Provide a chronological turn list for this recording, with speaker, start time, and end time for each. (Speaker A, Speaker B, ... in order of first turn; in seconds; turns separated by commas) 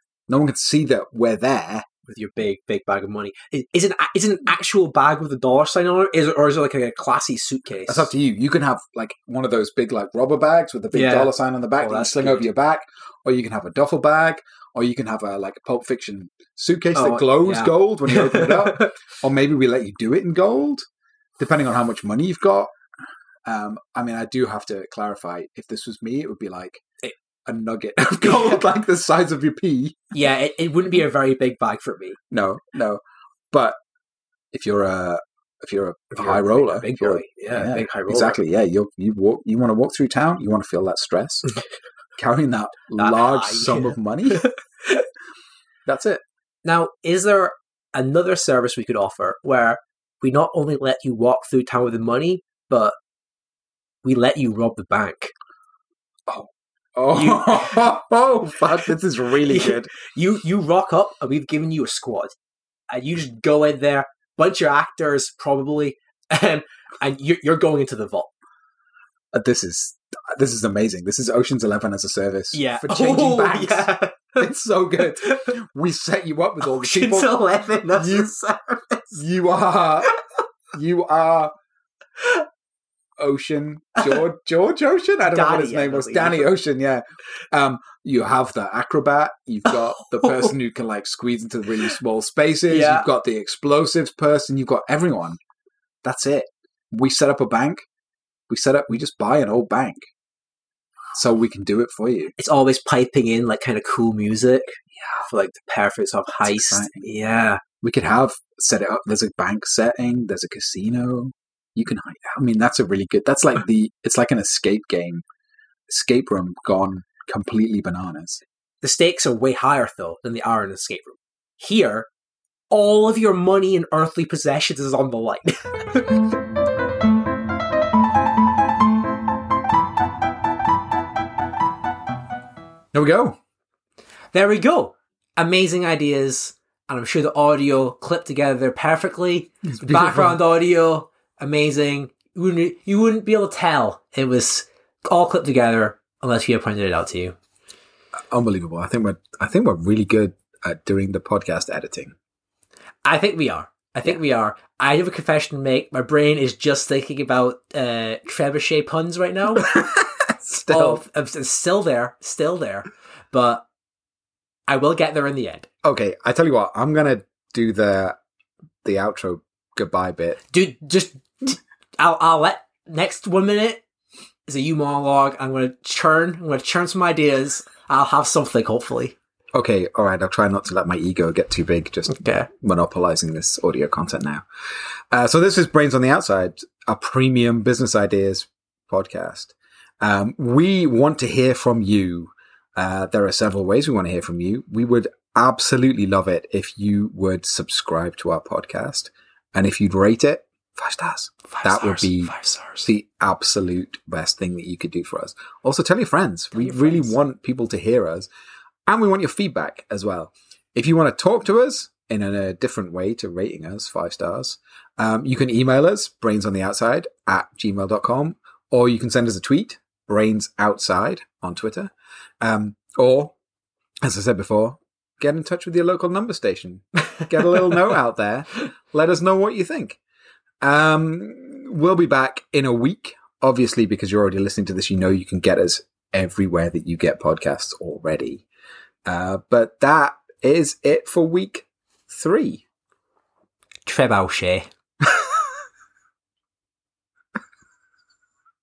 Speaker A: 0.3-1.8, Speaker B: 2.1-8.1, Speaker A: 7.9-20.8, Speaker B: 10.9-12.5, Speaker B: 16.9-18.9, Speaker A: 21.4-22.7, Speaker A: 23.4-26.8, Speaker A: 27.4-30.1, Speaker B: 28.2-28.6, Speaker B: 30.1-32.2, Speaker A: 32.3-33.0, Speaker A: 33.5-33.8, Speaker A: 34.5-41.5, Speaker B: 36.1-38.4, Speaker A: 42.2-44.5, Speaker B: 43.0-45.0, Speaker A: 45.9-46.2, Speaker B: 46.6-52.9, Speaker B: 54.0-55.3, Speaker A: 56.3-59.9, Speaker B: 57.1-57.9, Speaker B: 59.4-62.3, Speaker B: 62.9-68.3, Speaker A: 69.3-78.3, Speaker B: 72.5-74.4, Speaker B: 75.1-75.5, Speaker B: 76.6-79.2, Speaker A: 79.2-80.1, Speaker A: 80.7-81.5, Speaker A: 83.2-95.4, Speaker B: 85.2-86.5, Speaker B: 89.7-90.5, Speaker B: 92.7-93.1, Speaker A: 96.0-97.8, Speaker A: 98.5-100.1, Speaker A: 101.1-102.3, Speaker B: 102.4-107.6, Speaker A: 106.4-107.1, Speaker A: 107.8-115.2, Speaker A: 115.9-118.4, Speaker B: 118.8-122.1, Speaker B: 122.7-126.3, Speaker A: 132.9-133.4, Speaker B: 134.3-147.3, Speaker A: 139.7-140.4, Speaker A: 148.3-152.1, Speaker B: 153.0-159.8, Speaker A: 159.6-161.0, Speaker B: 160.7-163.7, Speaker B: 164.7-165.7, Speaker A: 165.8-168.2, Speaker A: 168.8-170.4, Speaker B: 170.5-173.8, Speaker B: 174.5-179.1, Speaker A: 179.5-184.4, Speaker B: 182.1-182.5, Speaker A: 185.1-208.3, Speaker B: 201.5-202.9, Speaker B: 206.5-207.2, Speaker A: 208.9-223.3, Speaker A: 224.0-230.0, Speaker A: 230.6-238.4, Speaker A: 239.1-242.6, Speaker B: 243.8-244.7, Speaker A: 245.0-245.3